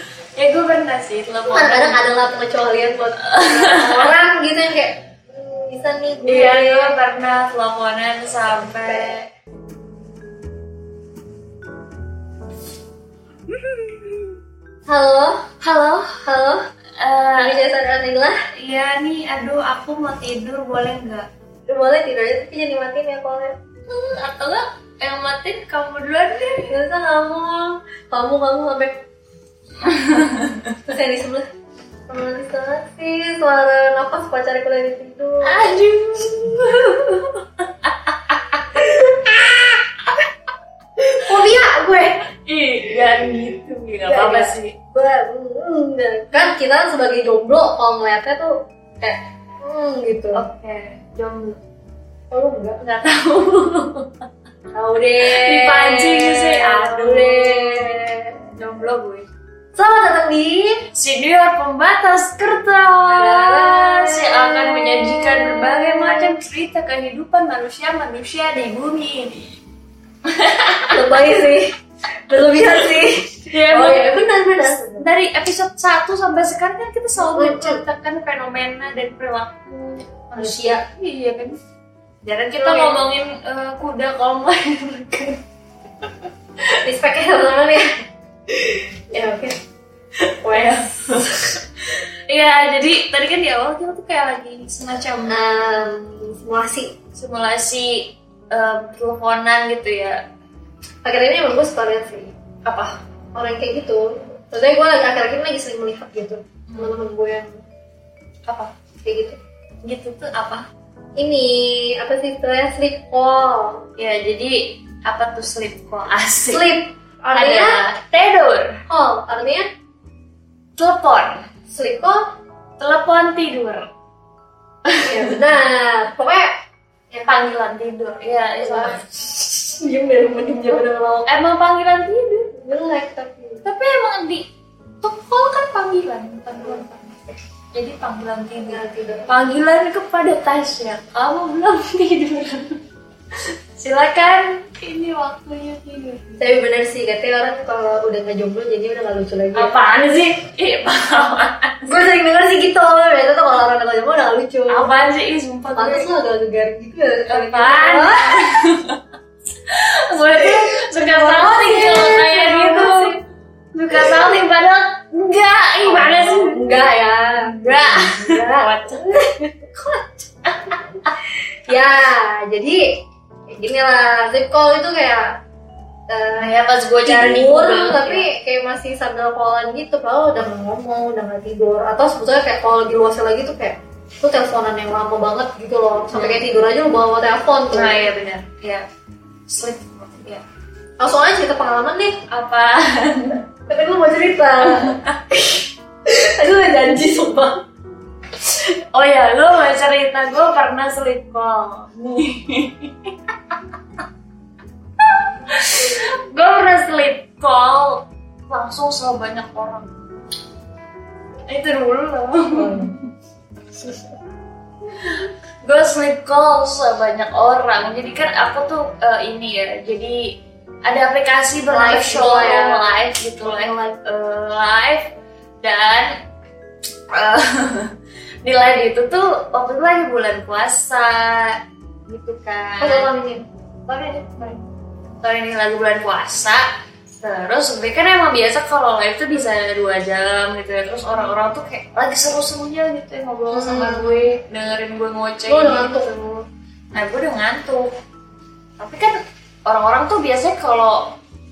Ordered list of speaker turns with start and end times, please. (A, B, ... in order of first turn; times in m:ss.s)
0:00.4-0:02.0 A
0:01.5-0:06.9 B
0:03.2-0:04.1 A
0:06.2-0:09.3 A
0:08.8-0:09.1 B
0:13.6-0:14.3 A
0:14.9-0:15.4 B
0:15.6-0:16.3 A
0:16.2-0:16.6 B
0:17.0-0:17.6 A
0:17.4-0:18.4 B
0:18.6-0:21.3 A
0:21.7-0:23.5 B
0:23.9-0:26.8 A
0:26.7-0:29.0 B
0:29.8-0:30.8 A
0:30.9-0:31.4 B
0:32.1-0:36.4 B
0:35.4-0:38.7 A
0:38.7-0:39.7 B
0:41.0-0:42.2 B
0:42.4-0:44.8 A
0:44.0-0:50.4 B
0:50.3-0:51.6 A
0:52.3-0:52.8 B
0:52.8-0:54.1 A
0:54.7-0:58.4 B
0:55.2-0:57.9 A
0:58.5-0:59.3 A
0:59.7-1:00.9 B
1:00.9-1:09.5 A
1:03.1-1:06.3 B
1:10.2-1:11.5 A
1:10.9-1:11.8 B
1:12.3-1:15.1 B
1:13.5-1:21.6 A
1:17.2-1:17.8 B
1:20.4-1:20.8 B
1:22.2-1:25.4 A
1:22.6-1:23.1 B
1:26.8-1:27.9 B
1:28.5-1:29.5 B
1:30.4-1:31.6 B
1:30.5-1:31.5 A
1:32.3-1:35.6 A
1:35.2-1:36.9 B
1:37.1-1:40.2 A
1:41.0-1:42.3 B
1:42.6-1:43.0 A
1:43.3-1:47.5 B
1:46.7-1:47.0 A
1:48.5-1:48.7 A
1:49.0-1:49.4 B
1:49.8-1:50.6 A
1:51.2-1:53.9 B
1:54.0-1:56.7 A
1:56.5-1:57.8 B
1:57.3-1:58.8 A
1:58.9-1:59.7 B
2:00.8-2:01.4 A
2:01.7-2:02.2 B
2:02.8-2:03.8 A
2:04.8-2:05.4 A
2:05.0-2:06.5 B
2:07.1-2:07.5 B
2:07.3-2:09.1 A
2:08.6-2:11.3 B
2:10.6-2:12.6 A
2:12.6-2:13.7 B
2:13.6-2:14.5 A
2:15.0-2:22.8 A
2:18.6-2:19.3 B
2:23.8-2:26.5 A
2:26.4-2:29.8 B
2:29.5-2:31.9 A
2:31.8-2:34.9 B
2:34.7-2:36.1 A
2:35.7-2:38.5 B
2:37.3-2:39.0 A
2:39.7-2:43.2 A
2:40.3-2:43.2 B
2:43.7-2:46.8 A
2:43.9-2:44.3 B
2:45.8-2:52.8 B
2:47.5-2:49.2 A
2:53.5-2:55.4 B
2:56.1-2:56.5 B
2:56.4-2:58.2 A
2:57.0-3:08.1 B
3:06.1-3:06.4 A
3:07.7-3:08.9 A
3:09.5-3:10.4 A
3:11.0-3:12.2 B
3:12.3-3:13.5 A
3:13.7-3:17.6 B
3:14.6-3:15.2 A
3:18.9-3:23.1 A
3:25.0-3:29.9 A
3:25.8-3:26.1 B
3:31.5-3:33.0 A
3:32.5-3:32.9 B
3:33.8-3:34.1 B
3:35.0-3:40.2 A
3:40.9-3:46.1 A
3:41.7-3:43.0 B
3:47.1-3:47.9 A
3:48.4-3:53.2 A
3:52.8-3:53.4 B
3:53.9-3:56.7 A
3:57.2-4:07.9 A
4:03.5-4:04.3 B
4:05.5-4:06.1 B
4:08.8-4:11.1 A